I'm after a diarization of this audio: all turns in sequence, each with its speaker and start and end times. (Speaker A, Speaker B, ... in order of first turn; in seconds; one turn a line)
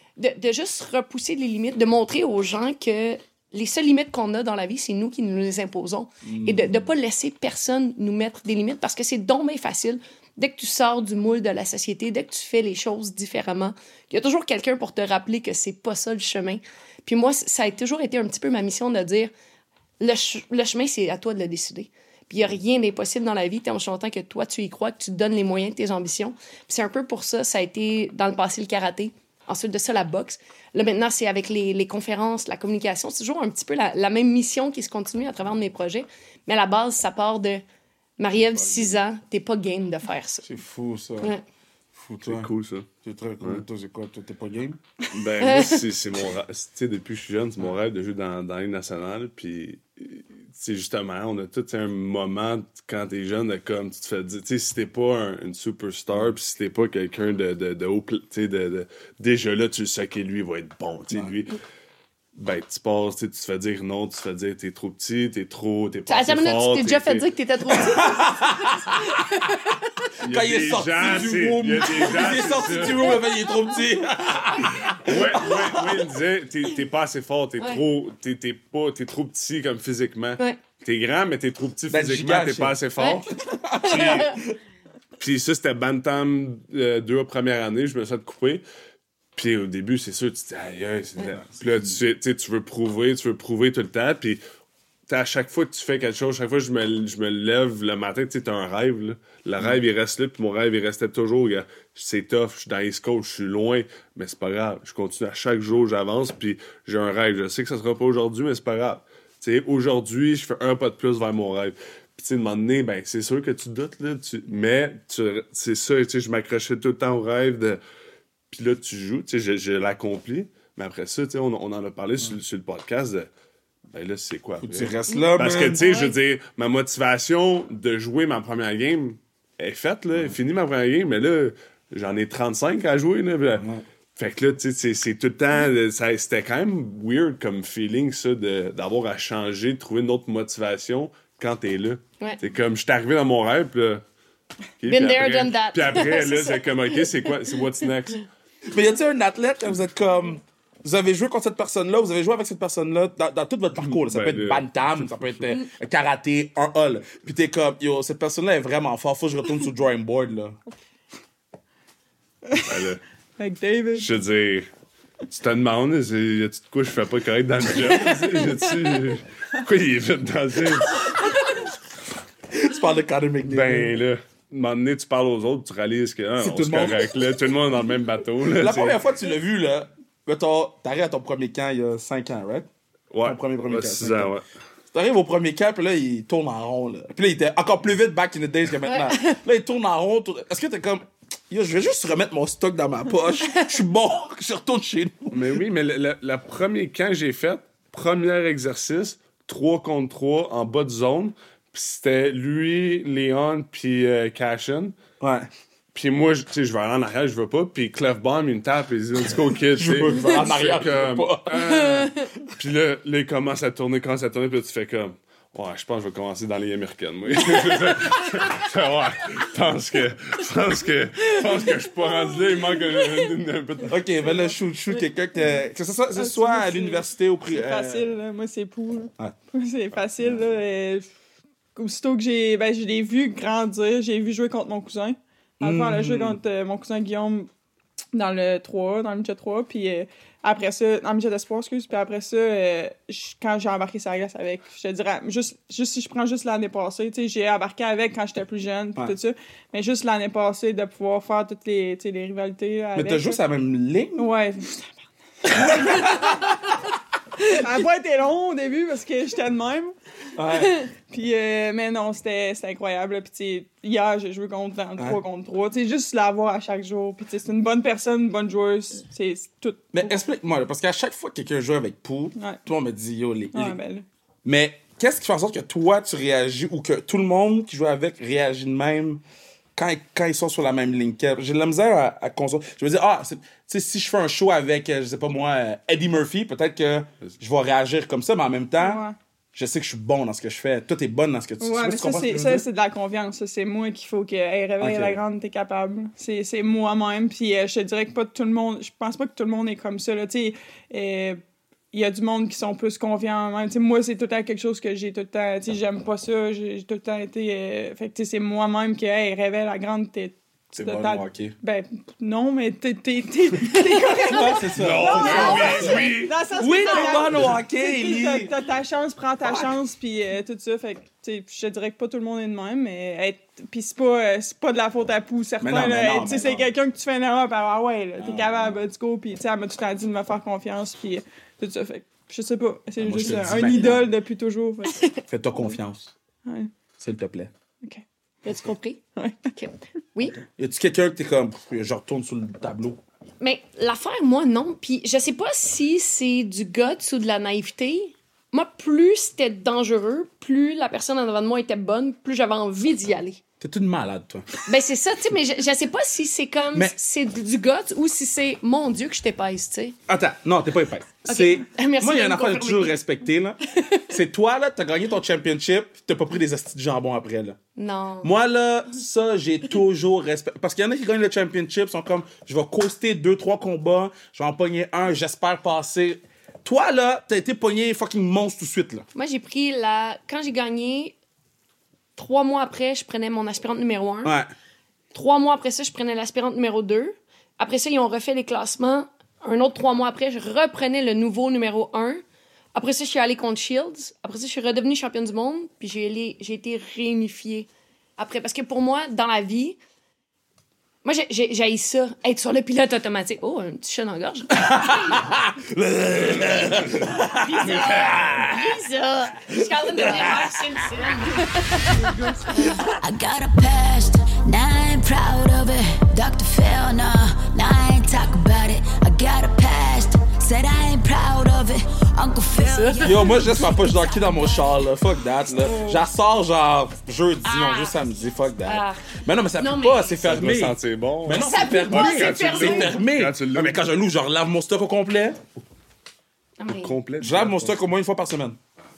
Speaker A: 0.2-19.3
Speaker B: 6.2-6.8
Speaker A: 20.0-37.6
Speaker A: 38.2-40.6
Speaker B: 40.4-41.3
Speaker B: 41.9-42.5
Speaker C: 42.2-42.9
Speaker B: 43.0-44.8
Speaker C: 45.1-61.6
Speaker A: 45.4-45.8
Speaker C: 62.4-67.3
Speaker A: 66.1-68.4
Speaker B: 67.7-69.1
Speaker A: 69.0-69.8
Speaker B: 70.2-76.0
Speaker C: 70.2-73.2
Speaker C: 75.0-84.4
Speaker B: 81.9-82.8
Speaker A: 83.0-83.2
Speaker B: 83.4-84.5
Speaker A: 83.8-84.3
Speaker C: 85.2-88.6
Speaker C: 89.3-94.4
Speaker B: 91.3-91.9
Speaker C: 95.1-117.8
Speaker C: 118.5-123.3
Speaker C: 123.9-144.0
Speaker B: 124.6-125.8
Speaker A: 125.1-126.1
Speaker B: 133.6-133.8
Speaker C: 144.8-148.2
Speaker A: 144.8-147.0
Speaker B: 148.7-160.6
Speaker C: 153.8-155.4
Speaker D: 162.5-162.8
Speaker C: 162.6-163.0
Speaker D: 163.4-164.1
Speaker C: 163.9-164.7
Speaker C: 165.3-171.2
Speaker B: 172.5-173.9
Speaker C: 173.5-179.0
Speaker B: 176.4-177.2
Speaker B: 178.6-182.7
Speaker C: 183.1-184.4
Speaker B: 183.2-184.3
Speaker B: 184.9-195.4
Speaker A: 188.8-189.4
Speaker C: 195.3-205.0
Speaker B: 205.2-205.5
Speaker C: 205.9-224.0
Speaker B: 209.7-211.8
Speaker A: 211.7-212.3
Speaker B: 223.9-228.1
Speaker D: 226.2-231.1
Speaker D: 231.8-237.5
Speaker B: 235.6-236.4
Speaker D: 238.1-253.4
Speaker B: 252.9-254.3
Speaker D: 254.2-256.5
Speaker D: 257.4-259.9
Speaker B: 260.4-260.8
Speaker D: 260.6-270.2
Speaker B: 269.9-273.8
Speaker D: 273.5-274.0
Speaker B: 274.4-279.2
Speaker B: 279.8-292.6
Speaker D: 288.8-289.2
Speaker D: 291.6-301.4
Speaker B: 294.8-295.2
Speaker D: 301.9-335.1
Speaker B: 310.7-311.5
Speaker B: 314.2-318.5
Speaker C: 314.7-316.4
Speaker A: 315.2-316.1
Speaker B: 319.4-319.7
Speaker B: 325.6-326.7
Speaker B: 328.2-328.8
Speaker B: 333.0-334.1
Speaker B: 335.3-336.1
Speaker D: 336.4-336.7
Speaker B: 337.0-337.5
Speaker A: 338.4-339.0
Speaker A: 339.5-340.4
Speaker B: 340.4-343.0
Speaker A: 343.4-353.4
Speaker B: 353.6-354.5
Speaker A: 354.6-359.9
Speaker B: 360.1-367.6
Speaker A: 361.2-363.0
Speaker A: 363.7-364.0
Speaker A: 367.8-368.3
Speaker B: 368.2-379.1
Speaker A: 379.1-381.1
Speaker A: 382.1-384.4
Speaker B: 384.2-384.5
Speaker A: 385.1-392.2
Speaker A: 392.7-399.8
Speaker A: 401.0-405.3
Speaker B: 404.6-408.7
Speaker A: 406.7-412.7
Speaker C: 407.7-408.3
Speaker B: 409.5-410.6
Speaker E: 412.7-424.6
Speaker A: 422.5-423.7
Speaker B: 423.0-435.4
Speaker D: 425.6-426.0
Speaker A: 427.4-428.0
Speaker A: 428.6-430.2
Speaker C: 430.2-433.8
Speaker A: 431.3-433.0
Speaker A: 436.6-436.9
Speaker C: 436.7-437.8
Speaker B: 437.2-438.6